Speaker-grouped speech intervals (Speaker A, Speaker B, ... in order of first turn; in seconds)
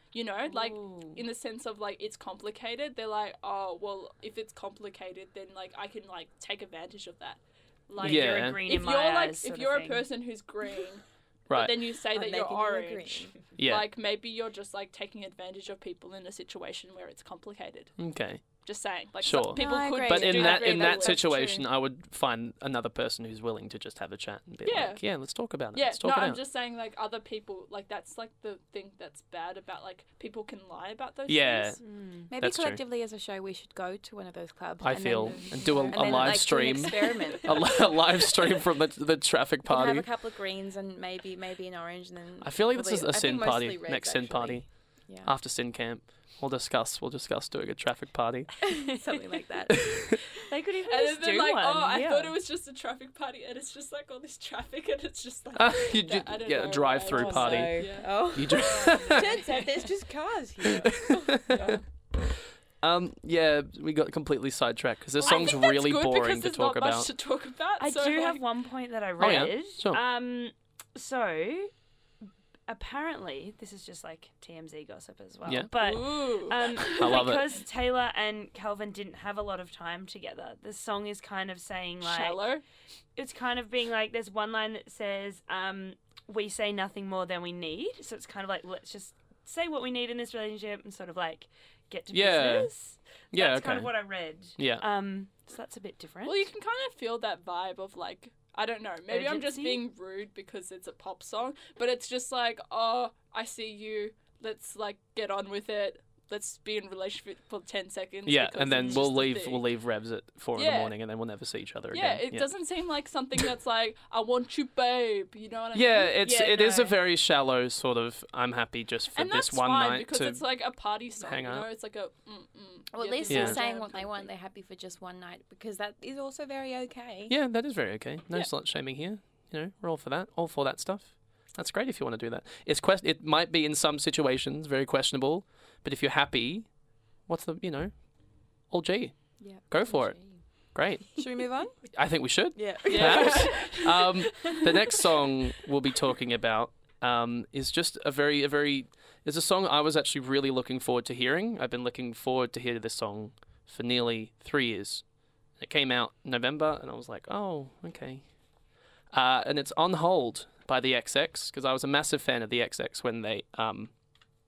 Speaker A: 0.1-18.0, 18.6-21.4, 24.6-31.8, 50.9-59.4, 61.5-61.8, 65.2-68.5, 75.8-77.2, 82.0-82.6, 96.2-109.7, 110.5-111.0, 111.9-116.9, 119.1-124.3, 142.9-143.7
Speaker B: 0.6-1.1, 7.9-10.1, 31.8-32.3, 35.7-36.9, 50.4-52.3, 58.5-59.3, 67.8-71.7, 72.7-82.5, 83.2-96.5, 99.1-99.8
Speaker C: 8.0-8.6, 11.5-11.8, 13.6-13.9, 18.0-18.4, 19.2-26.4, 31.3-31.8, 32.4-32.8, 34.8-40.1, 42.4-48.9, 55.5-59.4, 60.8-61.7, 62.8-67.1, 69.2-70.0, 76.8-77.5, 92.1-92.7, 93.3-94.8, 108.2-112.5, 115.7-120.5, 121.2-121.7, 123.3-123.6, 127.3-138.1, 138.7-141.3, 141.9-155.0, 155.6-158.2, 159.1-163.9
Speaker D: 12.1-13.4, 19.5-21.6, 32.2-38.2, 39.6-45.3, 48.7-50.3, 57.1-61.7, 122.9-127.3, 139.4-140.4, 141.2-144.1